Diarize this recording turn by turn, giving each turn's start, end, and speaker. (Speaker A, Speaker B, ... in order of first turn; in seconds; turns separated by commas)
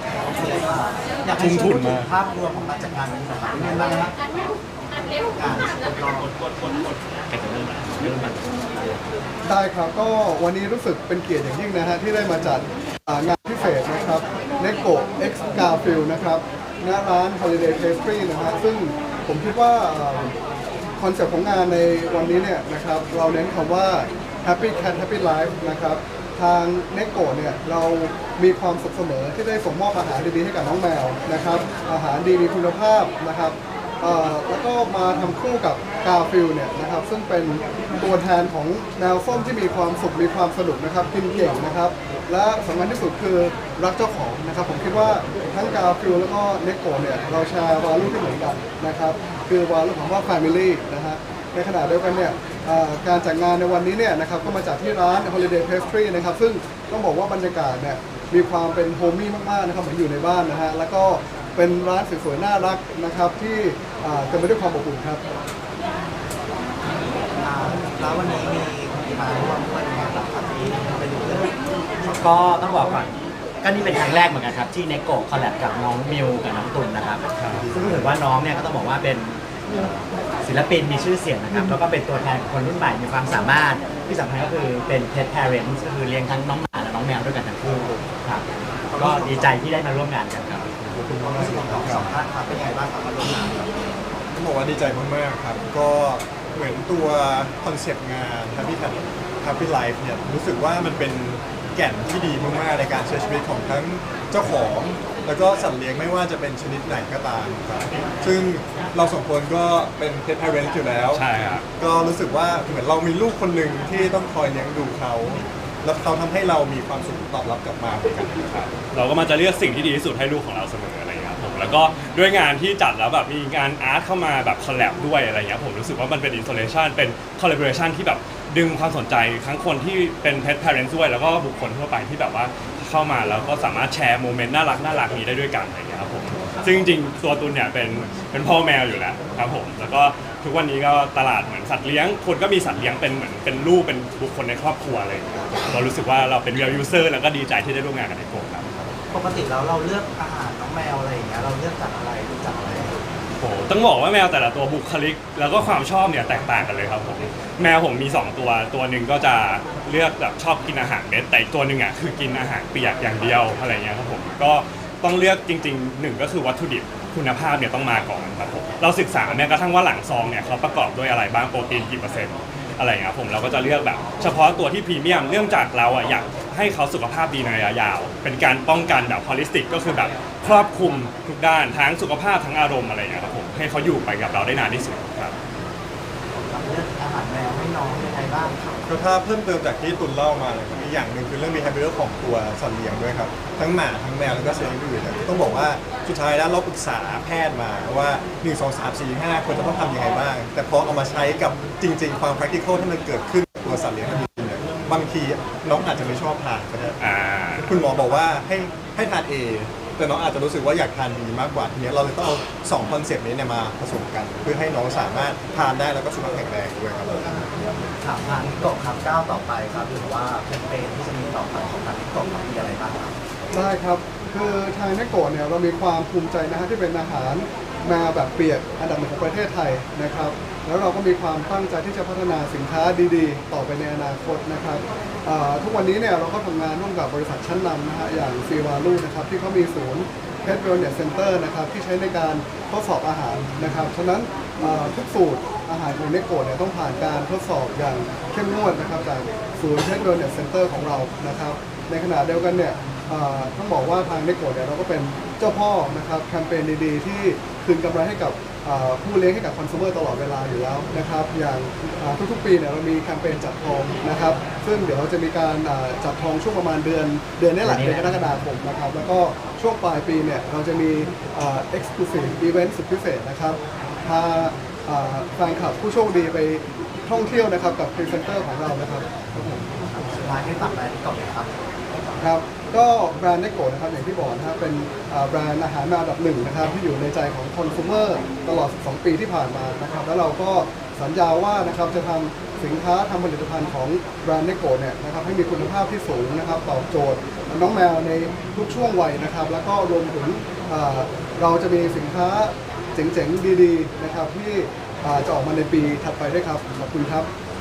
Speaker A: 0.3-4.2, Speaker B: 1.4-2.1, Speaker A: 5.3-6.3, Speaker C: 7.3-9.0, Speaker D: 9.4-20.4, Speaker D: 21.0-65.2, Speaker A: 67.4-71.6, Speaker C: 72.0-79.4, Speaker B: 77.4-77.7, Speaker E: 77.5-78.2, Speaker C: 80.4-88.5, Speaker A: 88.9-89.7, Speaker C: 89.0-90.7, Speaker E: 90.8-92.2, Speaker A: 91.2-93.9, Speaker E: 94.3-111.2, Speaker B: 111.1-111.7, Speaker E: 111.8-118.5, Speaker B: 118.5-148.7, Speaker A: 149.1-153.0, Speaker B: 153.4-185.3, Speaker A: 186.3-188.8, Speaker E: 188.9-207.0, Speaker B: 207.0-207.7, Speaker E: 207.7-217.3, Speaker A: 218.0-223.1, Speaker C: 218.2-220.6, Speaker D: 223.5-279.3, Speaker C: 267.6-268.4, Speaker A: 279.5-282.2, Speaker D: 282.2-307.3